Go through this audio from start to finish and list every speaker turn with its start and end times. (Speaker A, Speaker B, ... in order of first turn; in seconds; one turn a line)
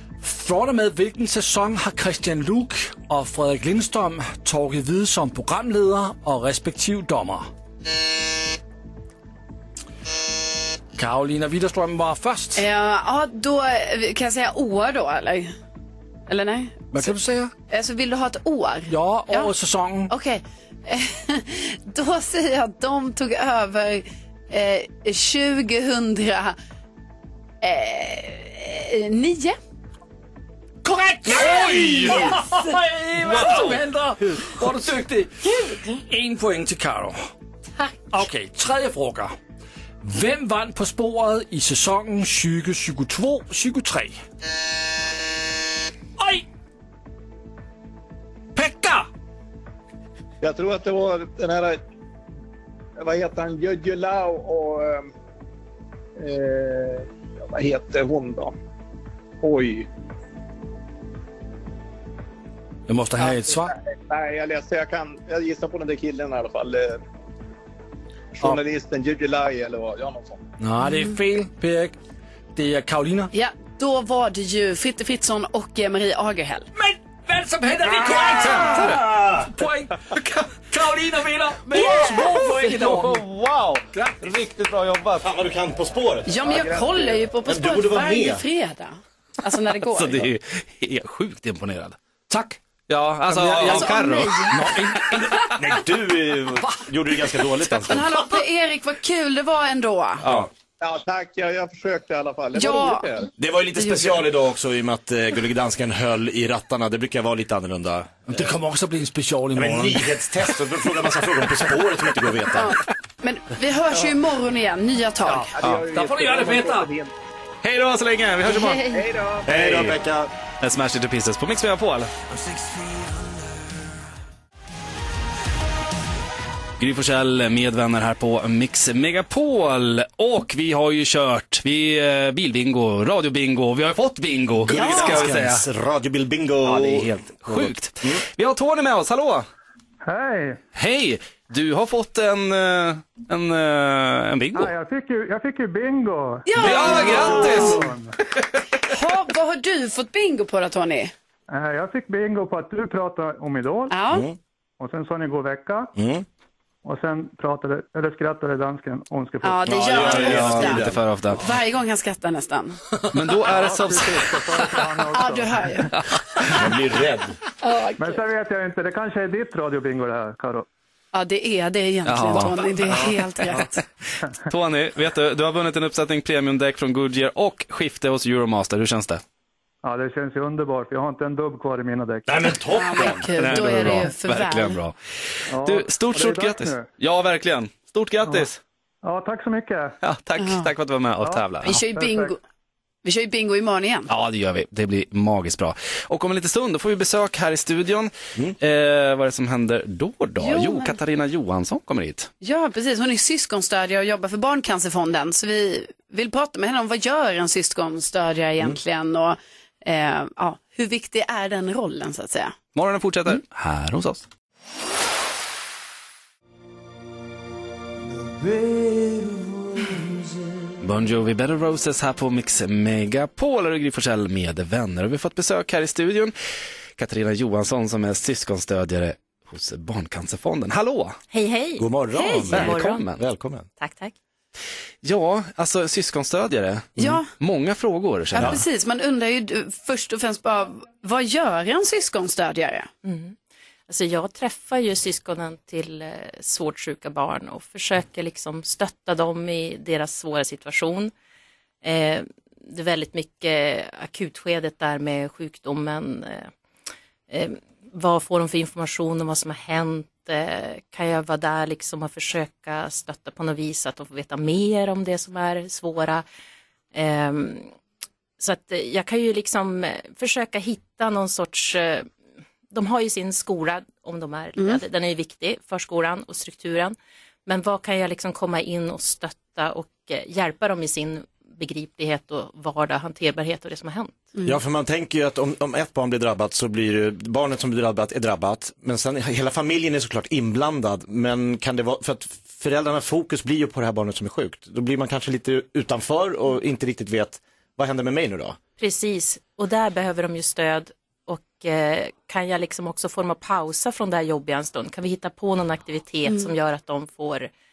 Speaker A: 0.2-7.5
Speaker A: 11.0-12.6
Speaker B: 12.5-15.5
Speaker B: 16.3-17.1
Speaker A: 16.9-17.5
Speaker B: 17.7-19.5
Speaker A: 18.9-20.1
Speaker B: 20.1-26.6
Speaker B: 27.6-29.6
Speaker A: 30.8-37.3
Speaker C: 31.4-32.4
Speaker A: 38.1-39.4
Speaker A: 40.0-44.2
Speaker A: 46.2-46.4
Speaker A: 48.5-49.1
Speaker D: 50.4-51.8
Speaker D: 53.0-55.1
Speaker D: 56.2-58.5
Speaker D: 59.4-59.9
Speaker A: 62.9-63.7
Speaker D: 63.2-67.0
Speaker D: 68.4-70.4
Speaker A: 70.6-72.0
Speaker A: 72.5-73.3
Speaker B: 73.3-76.7
Speaker A: 76.7-83.2
Speaker C: 78.9-79.5
Speaker E: 81.7-85.2
Speaker C: 85.2-86.4
Speaker B: 86.3-90.3
Speaker D: 86.4-87.3
Speaker C: 87.4-88.4
Speaker E: 89.9-92.0
Speaker A: 92.3-92.6
Speaker E: 92.9-95.4
Speaker A: 93.2-95.4
Speaker B: 93.6-94.6
Speaker C: 95.5-98.1
Speaker B: 97.8-100.2
Speaker C: 100.2-100.5
Speaker E: 100.2-100.5
Speaker D: 100.8-103.3
Speaker B: 102.5-103.1
Speaker C: 103.4-108.5
Speaker B: 103.8-104.2
Speaker A: 108.3-110.2
Speaker C: 109.5-112.8
Speaker B: 112.5-115.5
Speaker A: 115.2-116.9
Speaker D: 115.5-117.1
Speaker E: 117.6-118.8
Speaker B: 118.4-119.0
Speaker D: 118.9-120.0
Speaker C: 119.4-120.3
Speaker E: 120.6-122.1
Speaker E: 126.8-135.7
Speaker C: 134.7-138.2
Speaker E: 136.6-139.5
Speaker F: 140.0-140.6
Speaker E: 140.7-144.7
Speaker F: 144.5-148.1
Speaker B: 146.4-147.8
Speaker E: 146.5-148.6
Speaker C: 147.1-147.8
Speaker B: 148.8-151.1
Speaker F: 151.5-153.9
Speaker B: 153.9-154.3
Speaker C: 154.1-154.3
Speaker F: 154.8-155.9
Speaker C: 155.9-156.2
Speaker F: 156.8-159.7
Speaker B: 159.4-160.8
Speaker C: 159.7-161.0
Speaker E: 159.9-161.4
Speaker B: 161.4-162.8
Speaker E: 163.1-164.8
Speaker F: 163.4-165.9
Speaker B: 165.1-165.9
Speaker C: 166.5-167.3
Speaker B: 167.6-168.2
Speaker F: 168.0-170.7
Speaker B: 171.1-173.8
Speaker E: 172.1-173.7
Speaker E: 174.4-179.2
Speaker F: 179.8-182.2
Speaker C: 182.2-183.8
Speaker B: 182.7-184.8
Speaker E: 183.3-184.9
Speaker F: 185.5-186.9
Speaker E: 185.6-188.6
Speaker F: 189.0-189.9
Speaker E: 190.0-191.8
Speaker B: 190.4-190.7
Speaker F: 191.2-192.3
Speaker B: 191.6-192.4
Speaker B: 193.0-194.1
Speaker E: 194.1-202.3
Speaker B: 200.4-200.9
Speaker B: 202.4-212.5
Speaker E: 212.7-214.2
Speaker E: 220.8-226.3
Speaker E: 227.0-231.2
Speaker G: 231.3-233.1
Speaker C: 231.8-233.7
Speaker E: 232.5-233.2
Speaker G: 233.8-234.1
Speaker E: 235.0-238.6
Speaker B: 237.0-237.3
Speaker B: 238.3-242.9
Speaker C: 238.3-238.6
Speaker G: 243.0-243.3
Speaker G: 243.9-251.1
Speaker G: 251.8-256.5
Speaker G: 257.3-266.2
Speaker G: 266.9-267.7
Speaker G: 268.4-272.1
Speaker G: 272.7-284.3
Speaker C: 284.4-298.6
Speaker G: 298.8-307.5
Speaker B: 306.2-306.5